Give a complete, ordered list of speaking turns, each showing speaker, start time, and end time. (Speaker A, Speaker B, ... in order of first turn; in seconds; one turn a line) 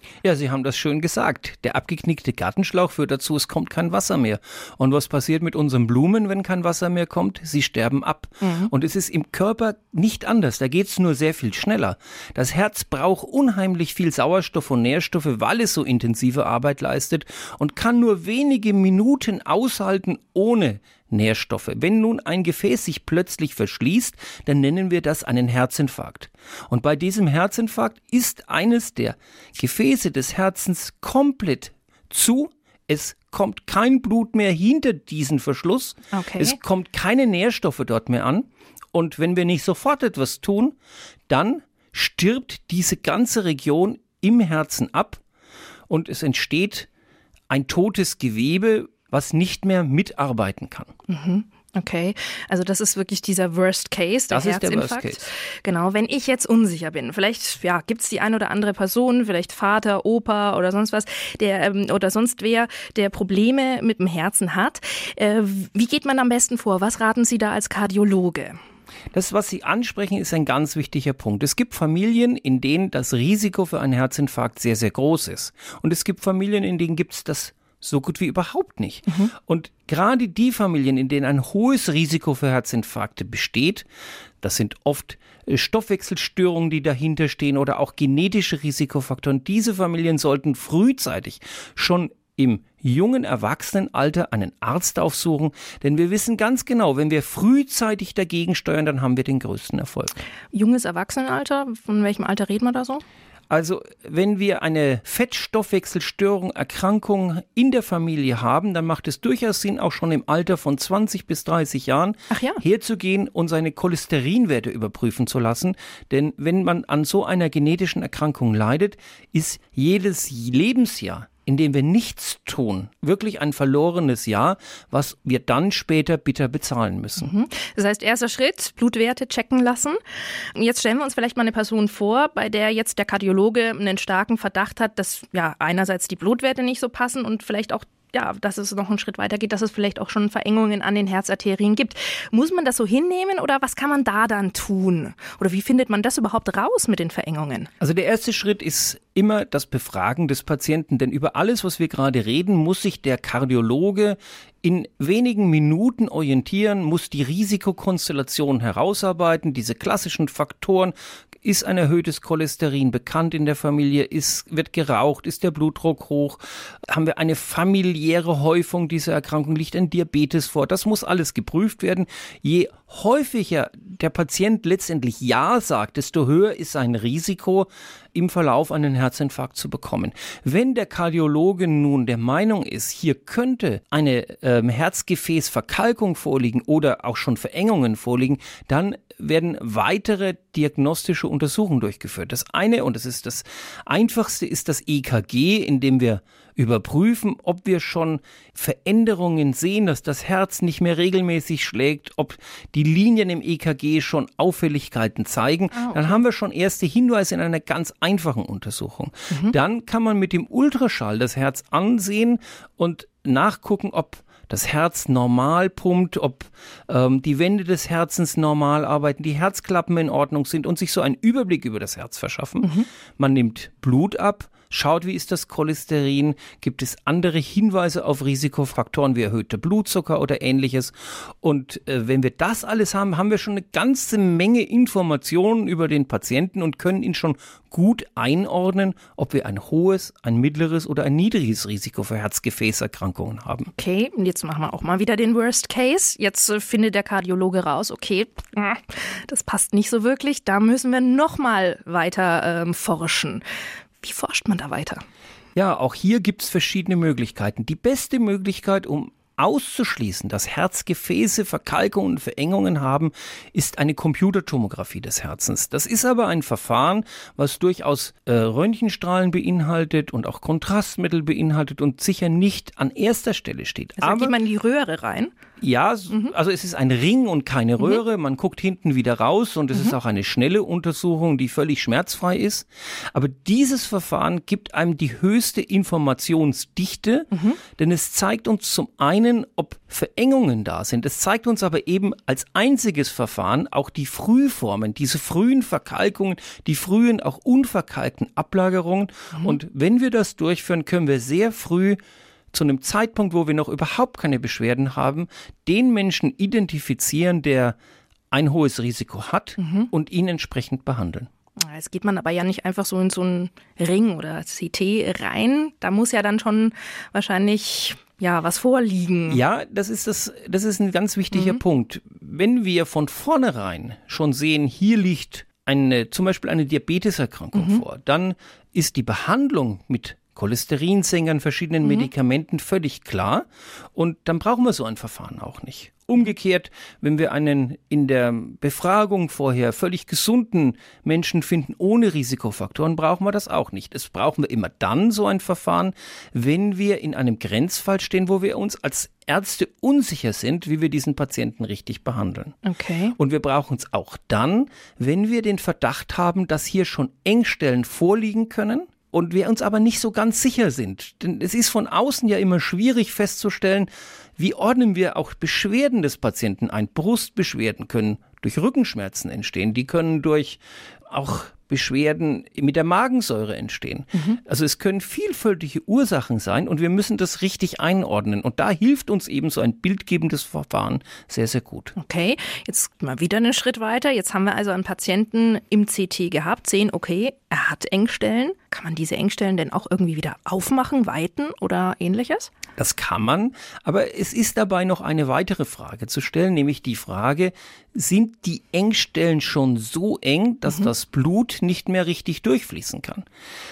Speaker A: 0.2-40.8
Speaker B: 8.4-8.7
Speaker B: 36.1-36.6
Speaker A: 41.3-45.2
Speaker A: 45.9-46.9
Speaker A: 47.5-50.9
Speaker B: 51.1-68.5
Speaker A: 54.3-55.3
Speaker A: 69.1-83.9
Speaker A: 84.4-100.2
Speaker B: 100.5-103.0
Speaker A: 103.5-127.3
Speaker B: 112.3-112.6
Speaker B: 127.2-130.0
Speaker B: 130.5-147.7
Speaker A: 147.8-243.7
Speaker B: 205.7-206.2
Speaker B: 222.6-222.9
Speaker B: 243.8-253.4
Speaker B: 254.0-255.0
Speaker A: 255.6-274.4
Speaker B: 274.0-275.3
Speaker A: 275.6-302.0
Speaker B: 287.3-287.6
Speaker A: 302.5-307.8
Speaker A: 308.3-311.3
Speaker B: 309.6-309.9
Speaker B: 311.6-319.4
Speaker A: 319.3-352.6
Speaker B: 321.3-321.6
Speaker B: 327.6-327.8
Speaker B: 331.8-332.1
Speaker B: 352.6-353.2
Speaker A: 353.2-382.0
Speaker B: 382.0-392.5
Speaker A: 392.8-403.2